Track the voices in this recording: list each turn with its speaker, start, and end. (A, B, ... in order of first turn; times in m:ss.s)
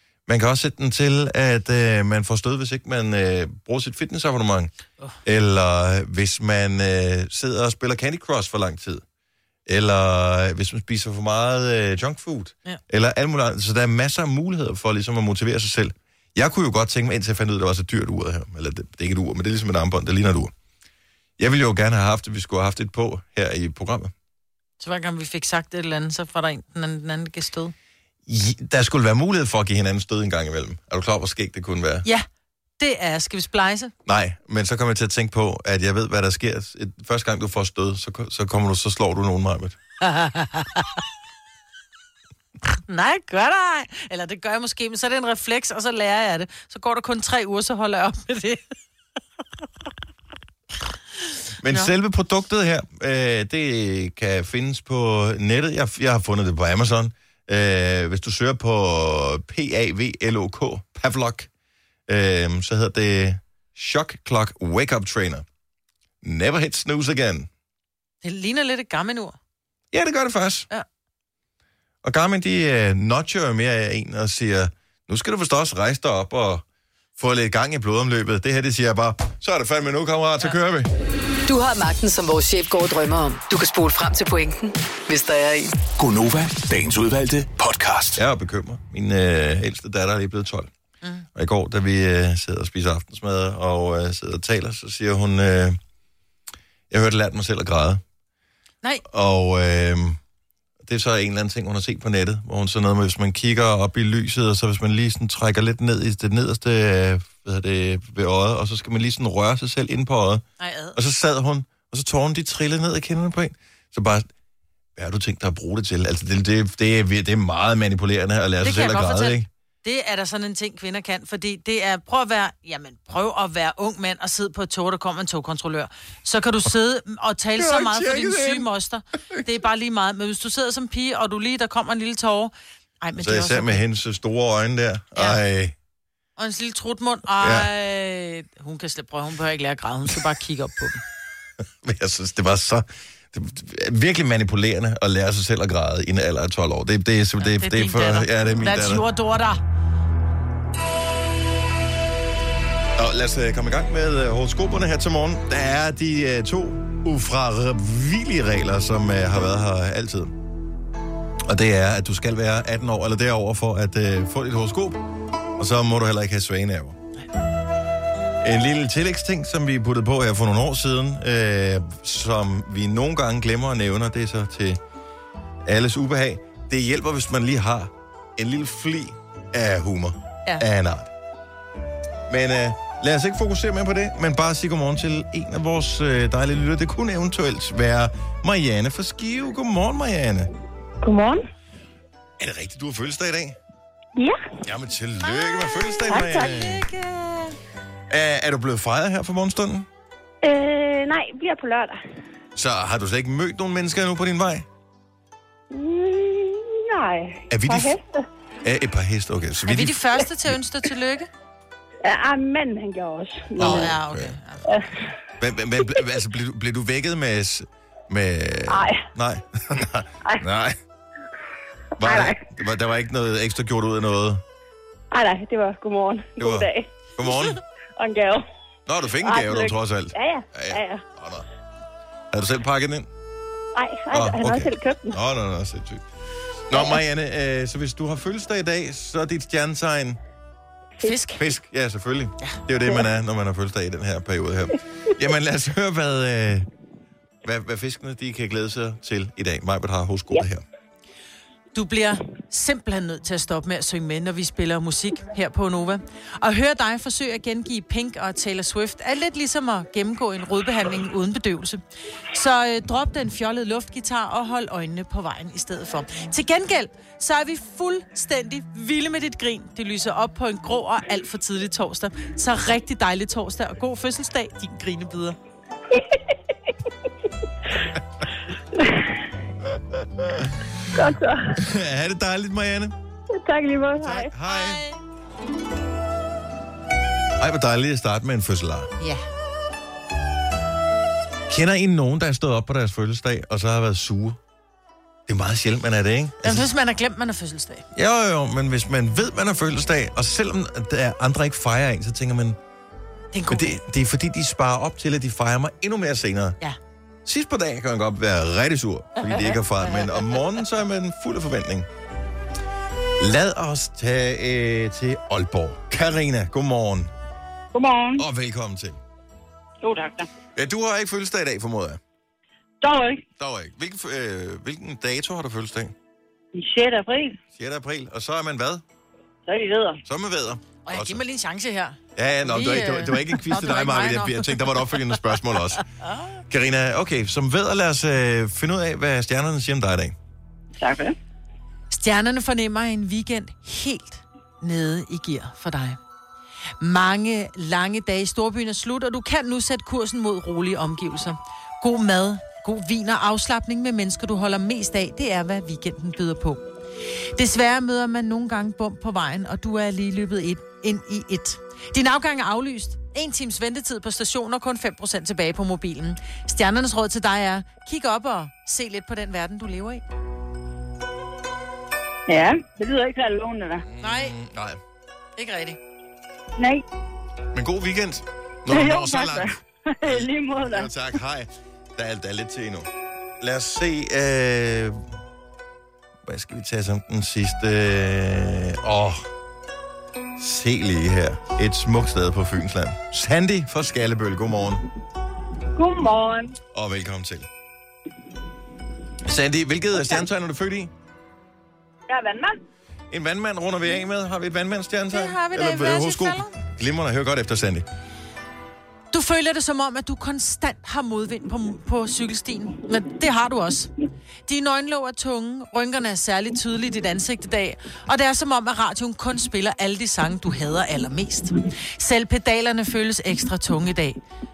0:00.3-0:04.7 A
0:05.2-0:09.0 A
0:09.7-0:20.5 A
0:21.4-0:24.1 A
0:24.8-0:27.7 B
0:28.2-0:32.0 A
0:32.8-0:33.9 B
0:34.0-0:39.8 A
0:40.0-0:40.8 B
0:42.9-0:48.6 B
0:51.6-1:01.5 A
1:02.1-1:05.4 A
1:06.2-1:07.5 A
1:08.2-1:09.4 B
1:09.9-1:10.7 A
1:12.0-1:16.6 A
1:17.2-1:20.9 A
1:21.5-1:25.7 C
1:25.9-1:28.2 D
1:28.2-1:30.7 A
1:31.3-1:35.8 A
1:36.9-1:38.0 A
1:39.0-1:40.2 A
1:40.8-1:50.4 A
1:50.6-1:51.0 B
1:50.9-1:54.3 A
1:55.0-1:59.5 A
1:58.6-2:13.8 B
2:07.6-2:08.7 A
2:13.2-2:15.7 A
2:15.2-2:15.4 B
2:16.4-2:21.0 B
2:17.4-2:17.7 A
2:21.8-2:29.0 A
2:27.4-2:29.6 B
2:33.0-2:40.3 A
2:41.4-2:45.0 A
2:45.6-2:47.0 A
2:48.4-2:54.8 A
2:55.6-3:01.1 A
3:02.3-3:10.5 A
3:11.0-3:11.4 E
3:12.4-3:13.6 A
3:14.2-3:14.5 E
3:14.6-3:16.8 A
3:16.1-3:17.6 B
3:16.1-3:16.6 E
3:18.1-3:19.9 A
3:20.4-3:22.1 E
3:22.6-3:24.6 A
3:25.7-3:28.2 E
3:27.5-3:28.0 A
3:28.6-3:30.5 A
3:29.6-3:31.3 B
3:32.0-3:34.0 E
3:33.6-3:34.4 A
3:33.6-3:34.6 B
3:34.6-3:35.1 E
3:35.4-3:40.8 A
3:38.7-3:39.0 E
3:42.0-3:42.4 E
3:42.0-3:44.4 A
3:45.1-3:46.9 E
3:46.4-3:47.6 A
3:48.0-3:48.4 E
3:48.9-3:51.4 A
3:49.2-3:51.0 E
3:52.3-3:53.1 A
3:53.7-3:55.2 E
3:54.1-3:56.0 A
3:56.7-4:00.2 A
4:01.0-4:01.4 B
4:01.4-4:06.7 A
4:07.4-4:10.6 A
4:11.7-4:21.8 B
4:22.3-4:35.4 B
4:35.9-4:36.3 E
4:38.7-4:39.2 E
4:40.2-4:40.5 A
4:40.9-4:41.6 E
4:41.6-4:42.9 A
4:43.3-4:44.3 E
4:44.0-4:44.8 A
4:44.5-4:45.0 B
4:47.4-4:48.9 A
4:49.0-4:49.2 B
4:51.5-4:54.4 A
4:55.3-4:56.7 A
4:56.4-4:57.8 B
4:57.9-5:02.6 A
5:03.3-5:03.8 B
5:03.5-5:06.6 A
5:07.2-5:11.9 A
5:13.2-5:17.1 A
5:17.7-5:18.2 E
5:18.2-5:19.0 A
5:19.8-5:20.3 E
5:20.6-5:22.0 A
5:22.8-5:23.2 E
5:23.4-5:25.9 A
5:26.5-5:27.4 E
5:27.5-5:28.8 A
5:29.4-5:30.0 E
5:30.0-5:31.2 A
5:30.8-5:34.6 B
5:32.2-5:35.8 A
5:36.5-5:40.1 A
5:40.8-5:41.1 E
5:41.9-5:46.0 B
5:46.8-5:56.6 B
5:57.4-6:10.0 B
6:12.3-6:13.8 E
6:13.8-6:14.8 A
6:14.0-6:14.3 B
6:15.4-6:15.8 B
6:16.6-6:16.8 E
6:17.5-6:22.9 A
6:18.7-6:20.9 E
6:23.4-6:25.0 A
6:26.2-6:29.2 A
6:30.4-6:34.8 A
6:35.8-6:36.5 E
6:36.7-6:37.5 A
6:39.2-6:40.9 A
6:42.1-6:42.5 E
6:43.1-6:47.8 A
6:45.1-6:46.6 B
6:49.1-6:53.9 B
6:54.5-7:04.2 B